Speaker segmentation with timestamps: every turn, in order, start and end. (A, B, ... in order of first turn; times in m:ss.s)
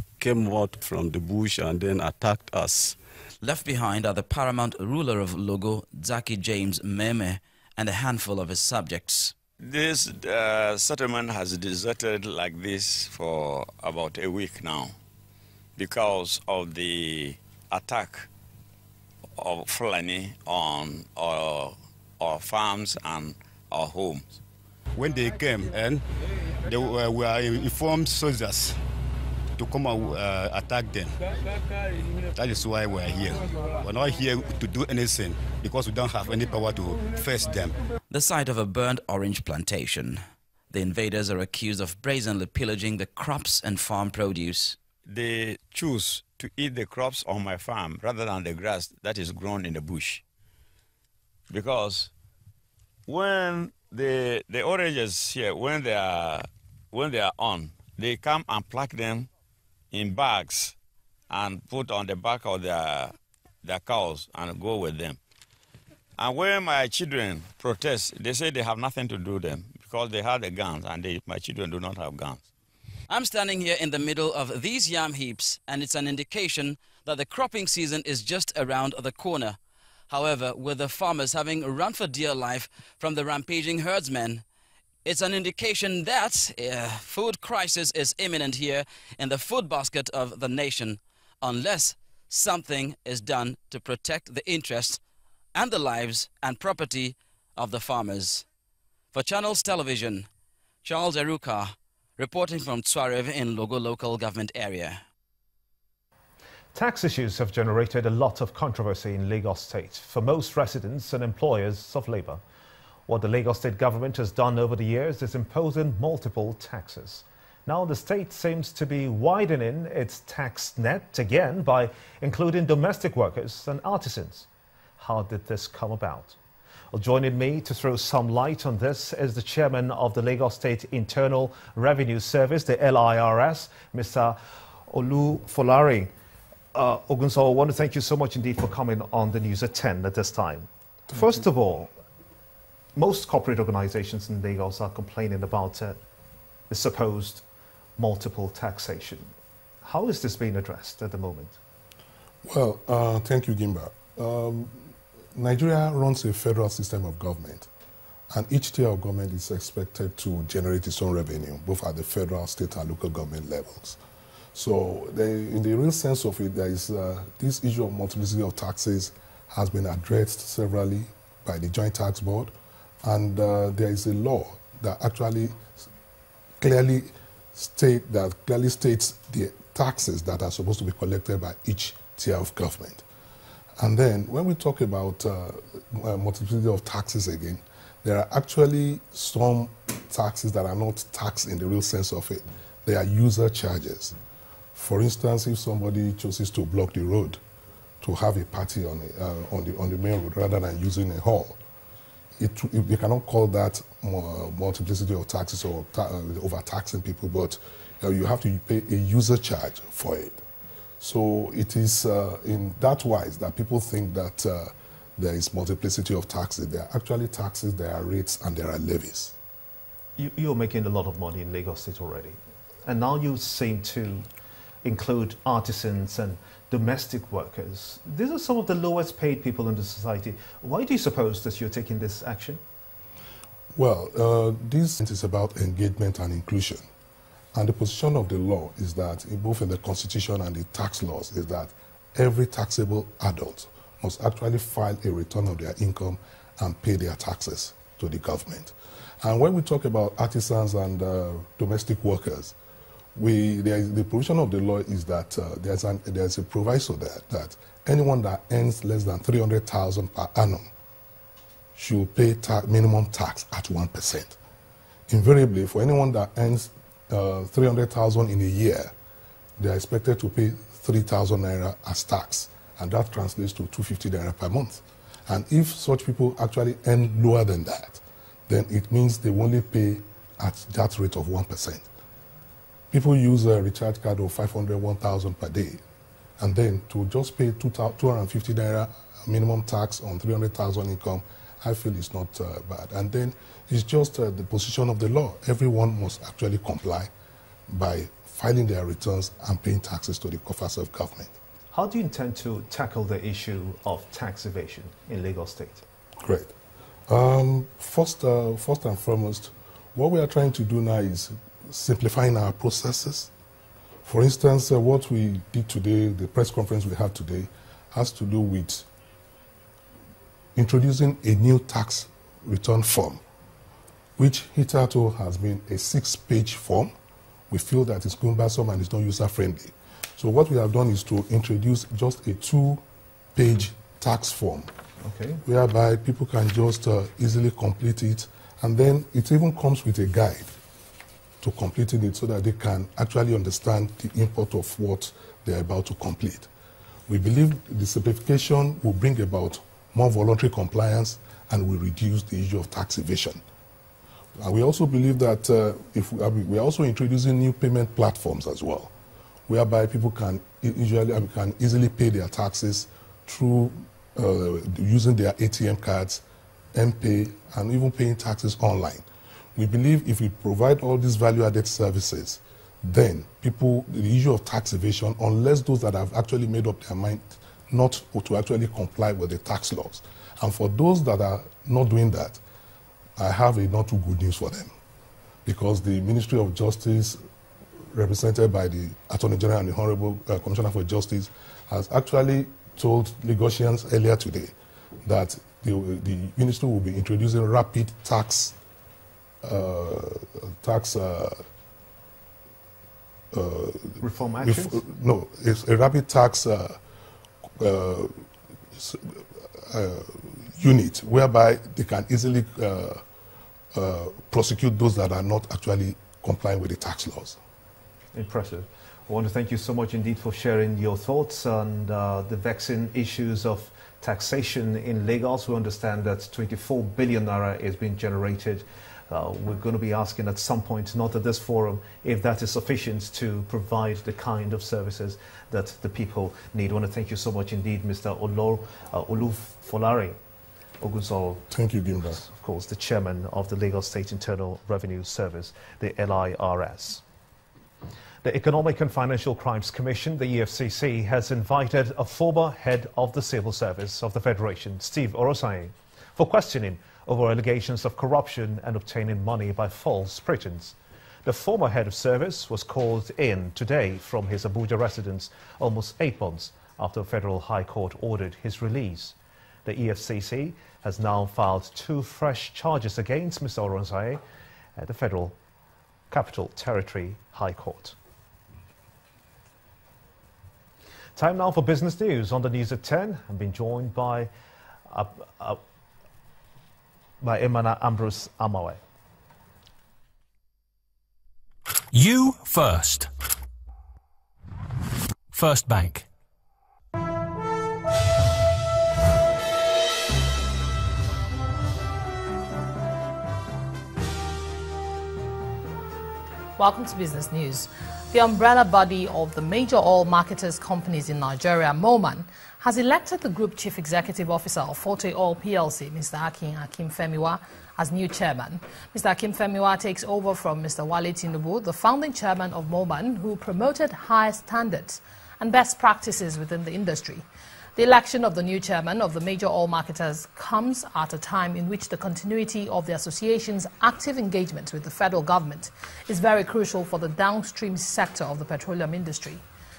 0:00.2-0:03.0 A
0:03.4-0:09.4 B
0:09.6-0:15.0 C
0:15.8-0:18.3 C
0:19.4-0:24.3 C
0:25.0-0:26.0 D
0:26.6-0:28.8 D
0:29.6-0:31.2 D
0:32.3-0:37.8 D
0:38.1-0:44.8 B
0:45.1-0:50.2 C
0:51.5-0:52.1 C
0:53.1-0:59.3 C
0:59.9-1:00.8 C
1:01.3-1:05.2 C
1:06.2-1:12.4 C
1:13.1-1:19.6 B
1:20.1-1:24.4 B
1:25.0-1:35.0 B
1:35.6-1:38.4 B
1:39.1-1:40.3 B
1:40.8-1:45.0 B
1:46.7-1:52.4 E
1:53.1-2:04.5 E
2:05.0-2:06.4 E
2:06.9-2:16.1 E
2:16.7-2:21.9 E
2:23.0-2:26.0 E
2:26.7-2:27.4 E
2:28.0-2:29.3 E
2:29.8-2:31.6 E
2:32.4-2:37.7 F
2:38.3-2:44.0 F
2:44.5-2:55.6 F
2:56.6-3:03.0 F
3:03.8-3:14.2 F
3:14.7-3:17.4 F
3:18.0-3:21.6 F
3:22.4-3:30.4 F
3:31.0-3:39.4 F
3:40.2-3:44.3 E
3:44.8-3:52.6 E
3:53.8-3:56.8 F
3:57.5-4:12.6 F
4:13.2-4:20.7 F
4:21.8-4:24.4 F
4:25.1-4:28.9 F
4:29.6-4:41.9 F
4:42.9-4:45.8 F
4:46.4-4:57.1 F
4:57.7-5:01.3 F
5:01.7-5:05.8 E
5:06.2-5:06.5 F
5:07.1-5:13.3 F
5:14.0-5:18.9 F
5:20.6-5:23.2 F
5:24.2-5:26.9 F
5:27.5-5:32.8 F
5:33.3-5:34.7 F
5:35.0-5:35.4 E
5:35.4-5:40.5 F
5:41.4-5:46.5 F
5:47.1-5:53.4 F
5:54.4-5:58.9 F
5:59.5-6:06.2 F
6:06.8-6:22.4 F
6:23.2-6:24.7 F
6:25.4-6:27.2 F
6:27.9-6:34.5 F
6:35.0-6:38.6 F
6:39.4-6:41.4 F
6:43.3-6:46.8 F
6:44.0-6:44.8 E
6:47.6-6:53.0 F
6:53.7-6:57.4 F
6:58.1-7:20.2 E
7:20.8-7:21.5 E
7:21.5-7:22.2 F
7:22.1-7:27.0 E
7:28.2-7:54.2 E
7:54.8-7:55.4 E
7:56.1-7:58.0 E
8:01.2-8:04.3 E
8:04.9-8:05.6 E
8:07.2-8:08.8 E
8:11.9-8:13.1 G
8:15.3-8:16.1 G
8:26.6-8:59.4 H